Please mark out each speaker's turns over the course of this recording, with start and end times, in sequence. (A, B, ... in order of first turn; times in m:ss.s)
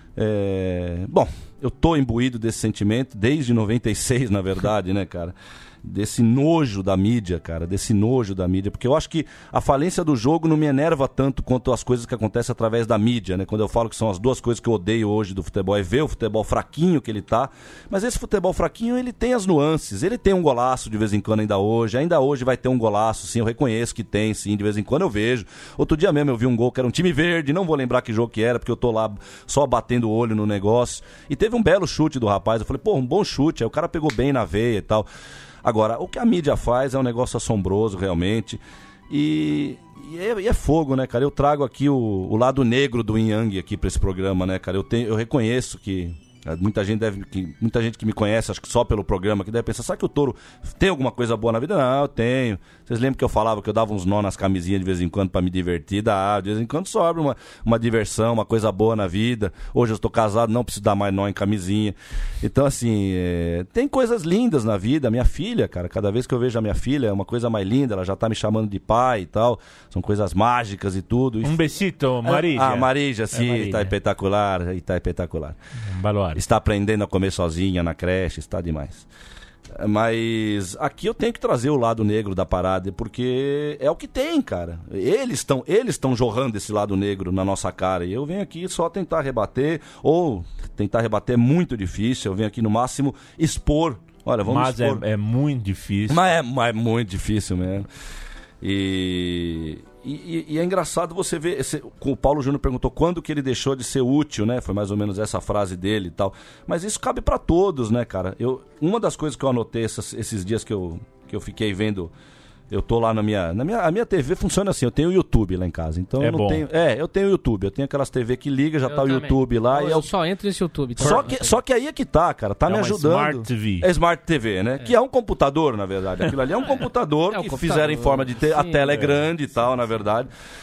0:00.2-0:35.1 A
0:35.6-1:11.6 A
1:11.4-1:14.0 B
1:12.2-1:15.6 A
1:15.9-1:16.4 B
1:16.4-1:19.1 A
1:19.8-1:35.0 A
1:34.5-1:36.2 B
1:36.1-1:37.9 A
1:38.6-1:52.1 A
1:52.7-2:00.1 A
1:56.2-1:56.6 B
1:58.9-2:01.6 C
2:01.0-2:10.3 A
2:02.7-2:03.9 B
2:07.3-2:08.9 C
2:08.9-2:09.3 B